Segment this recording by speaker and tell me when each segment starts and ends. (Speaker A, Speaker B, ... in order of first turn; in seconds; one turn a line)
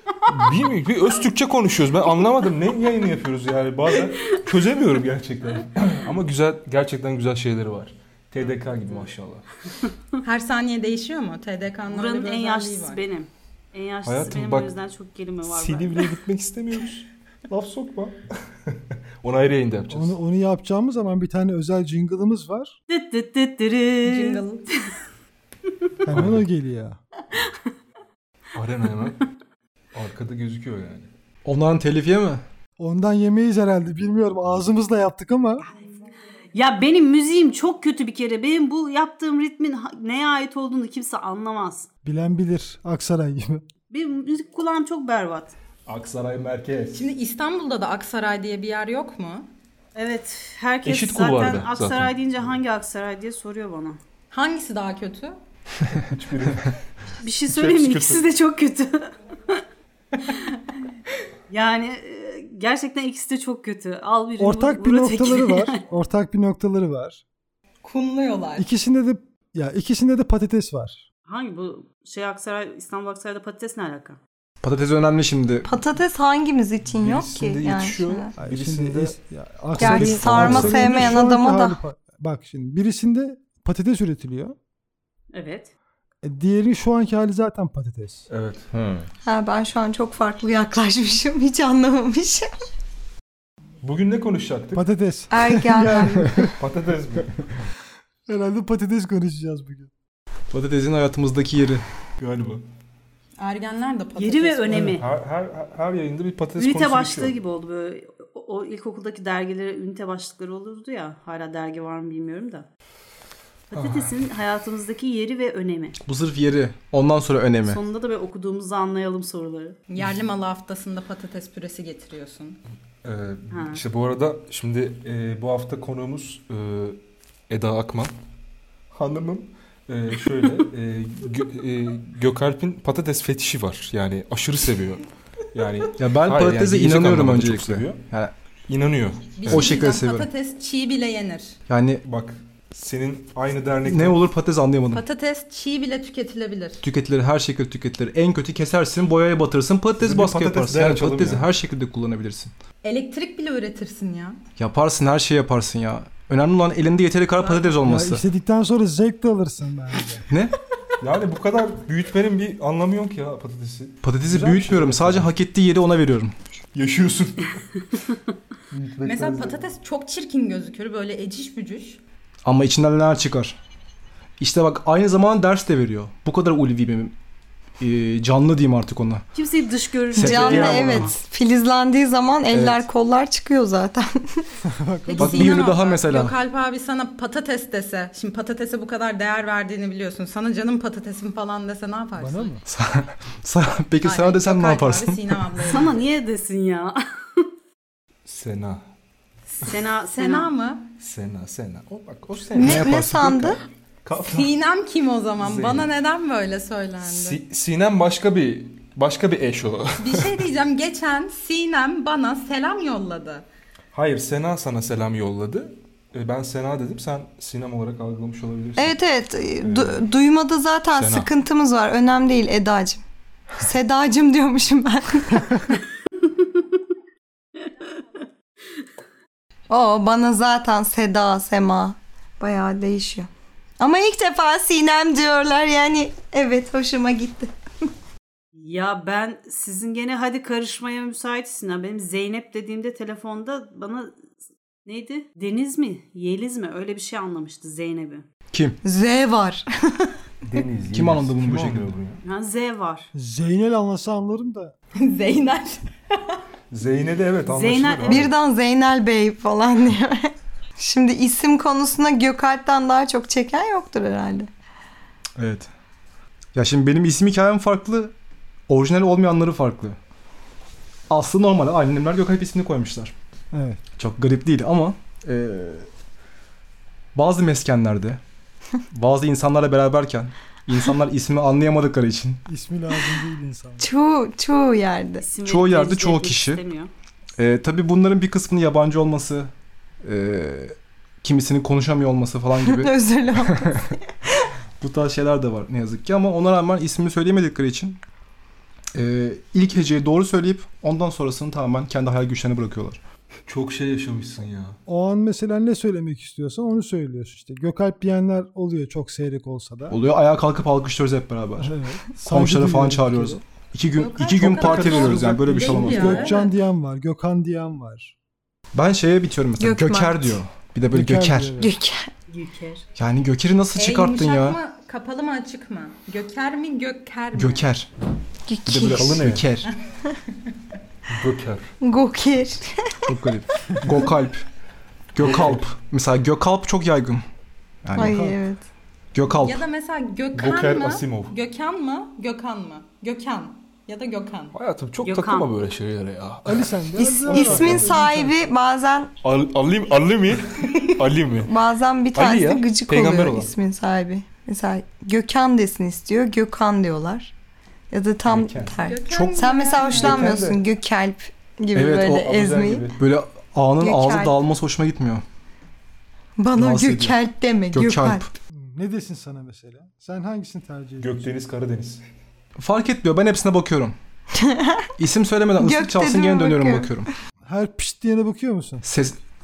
Speaker A: 0.3-9.5
Speaker B: 10.2-13.0
Speaker C: 11.9-16.1
Speaker A: 14.1-14.8
Speaker A: 15.5-20.1
Speaker D: 19.9-22.8
Speaker C: 22.9-24.4
Speaker B: 24.1-24.7
Speaker D: 26.1-27.0
Speaker A: 26.1-26.4
Speaker C: 27.3-27.7
Speaker A: 28.5-29.2
Speaker A: 29.9-31.1
Speaker E: 31.4-32.4
Speaker D: 32.8-35.6
Speaker C: 36.5-41.9
Speaker D: 42.0-43.6
Speaker C: 43.9-45.5
Speaker A: 45.9-47.1
Speaker B: 46.9-49.5
Speaker C: 50.0-54.0
Speaker A: 50.9-52.6
Speaker B: 54.3-55.4
Speaker A: 56.0-56.8
Speaker C: 57.2-59.6
Speaker A: 57.5-58.2
Speaker C: 60.3-60.6
Speaker C: 61.5-65.8
Speaker D: 64.4-67.2
Speaker B: 67.8-68.7
Speaker D: 68.6-71.0
Speaker C: 71.3-74.2
Speaker E: 74.6-75.7
Speaker F: 75.7-78.3
Speaker A: 76.9-79.2
Speaker D: 78.4-84.6
Speaker A: 79.8-81.2
Speaker F: 79.8-81.8
Speaker E: 79.9-80.9
Speaker C: 85.3-85.7
Speaker D: 86.2-88.3
Speaker A: 88.3-88.7
Speaker E: 88.7-89.1
Speaker F: 89.2-92.5
Speaker A: 93.8-94.9
Speaker D: 94.7-96.6
Speaker F: 95.3-96.3
Speaker A: 96.6-97.5
Speaker D: 98.3-99.9
Speaker E: 100.5-101.8
Speaker A: 102.2-102.7
Speaker B: 103.4-105.0
Speaker C: 104.2-105.0
Speaker A: 104.7-107.4
Speaker C: 106.6-112.7
Speaker C: 113.7-116.0
Speaker A: 113.7-114.2
Speaker E: 116.0-117.8
Speaker C: 117.7-119.8
Speaker B: 119.9-122.6
Speaker A: 123.0-128.1
Speaker C: 123.5-123.8
Speaker A: 128.9-138.0
Speaker E: 136.0-138.3
Speaker A: 138.7-139.8
Speaker B: 139.4-141.6
Speaker E: 139.5-140.3
Speaker E: 141.7-142.0
Speaker A: 142.0-144.3
Speaker E: 143.8-145.1
Speaker B: 144.9-146.8
Speaker E: 146.8-152.5
Speaker A: 150.0-151.5
Speaker B: 152.8-154.4
Speaker E: 154.6-158.2
Speaker B: 157.4-157.8
Speaker D: 157.8-160.3
Speaker E: 160.3-160.6
Speaker A: 161.0-165.3
Speaker E: 164.0-166.3
Speaker A: 166.7-167.8
Speaker A: 168.7-169.6
Speaker B: 169.0-172.0
Speaker E: 172.4-173.6
Speaker E: 174.4-177.1
Speaker E: 177.8-179.2
Speaker C: 179.3-181.1
Speaker F: 180.1-184.4
Speaker E: 180.2-181.0
Speaker A: 180.3-181.1
Speaker D: 184.6-185.6
Speaker B: 185.1-192.6
Speaker E: 185.2-186.4
Speaker D: 192.2-192.6
Speaker E: 192.7-195.7
Speaker B: 194.0-196.0
Speaker C: 195.6-197.5
Speaker A: 198.3-198.8
Speaker C: 199.6-200.5
Speaker B: 200.1-200.9
Speaker A: 201.0-204.5
Speaker F: 202.6-203.6
Speaker E: 202.6-203.3
Speaker B: 204.2-207.4
Speaker A: 205.4-205.9
Speaker A: 207.0-210.4
Speaker B: 210.0-213.5
Speaker A: 213.9-219.0
Speaker F: 218.8-223.0
Speaker A: 219.6-220.0
Speaker A: 221.0-221.3
Speaker F: 223.6-225.5
Speaker C: 226.3-226.7
Speaker C: 227.6-228.2
Speaker F: 229.7-237.5
Speaker C: 238.5-248.2
Speaker E: 248.5-248.8
Speaker F: 248.8-250.7
Speaker A: 250.4-252.2
Speaker E: 250.9-251.9
Speaker C: 252.2-253.1
Speaker D: 253.2-254.7
Speaker B: 254.9-256.4
Speaker A: 256.7-258.3
Speaker C: 257.5-258.3
Speaker F: 258.1-264.5
Speaker E: 265.4-265.7
Speaker E: 266.5-268.1
Speaker E: 268.7-270.0
Speaker E: 271.1-273.1
Speaker D: 273.5-273.8
Speaker E: 273.9-275.9
Speaker E: 277.1-278.2
Speaker E: 278.9-282.4
Speaker D: 282.5-283.9
Speaker F: 283.8-285.2
Speaker C: 285.2-286.9
Speaker E: 285.4-286.6
Speaker E: 287.4-289.5
Speaker E: 290.0-293.9
Speaker F: 292.6-294.5
Speaker E: 294.8-298.0
Speaker E: 298.9-303.0
Speaker A: 303.5-304.8
Speaker D: 304.9-310.0
Speaker E: 309.9-311.7
Speaker D: 311.6-313.4
Speaker E: 312.3-316.3
Speaker B: 313.9-316.6
Speaker A: 314.4-316.3
Speaker D: 315.8-318.1
Speaker E: 318.7-321.6
Speaker F: 319.6-320.4
Speaker D: 320.9-321.7
Speaker F: 321.6-322.1
Speaker C: 322.3-322.9
Speaker E: 323.0-324.6
Speaker B: 323.8-327.7
Speaker E: 327.3-327.9
Speaker F: 328.5-329.4
Speaker E: 328.7-329.7
Speaker A: 328.9-329.5
Speaker A: 331.1-331.7
Speaker F: 331.8-333.1
Speaker E: 333.1-334.4
Speaker E: 335.1-337.2
Speaker A: 335.2-335.6
Speaker E: 337.8-338.3
Speaker F: 338.0-338.6
Speaker D: 338.0-338.4
Speaker E: 339.1-339.6
Speaker B: 339.3-344.6
Speaker A: 340.3-341.3
Speaker A: 344.5-348.0
Speaker C: 345.0-345.5
Speaker D: 346.5-348.4
Speaker F: 347.0-349.1
Speaker A: 349.2-351.5
Speaker F: 351.4-357.3
Speaker A: 352.1-353.5
Speaker F: 357.9-362.9
Speaker A: 358.3-358.8
Speaker B: 358.8-360.4
Speaker A: 359.8-360.6
Speaker E: 361.8-362.2
Speaker A: 362.1-363.0
Speaker E: 363.0-365.2
Speaker F: 363.8-364.4
Speaker F: 366.4-368.3
Speaker E: 366.6-367.2
Speaker E: 367.7-368.3
Speaker D: 368.5-371.3
Speaker A: 371.0-372.0
Speaker E: 372.6-373.9
Speaker F: 374.3-374.9
Speaker E: 375.0-377.1
Speaker F: 375.6-376.9
Speaker D: 377.5-378.9
Speaker E: 378.8-379.2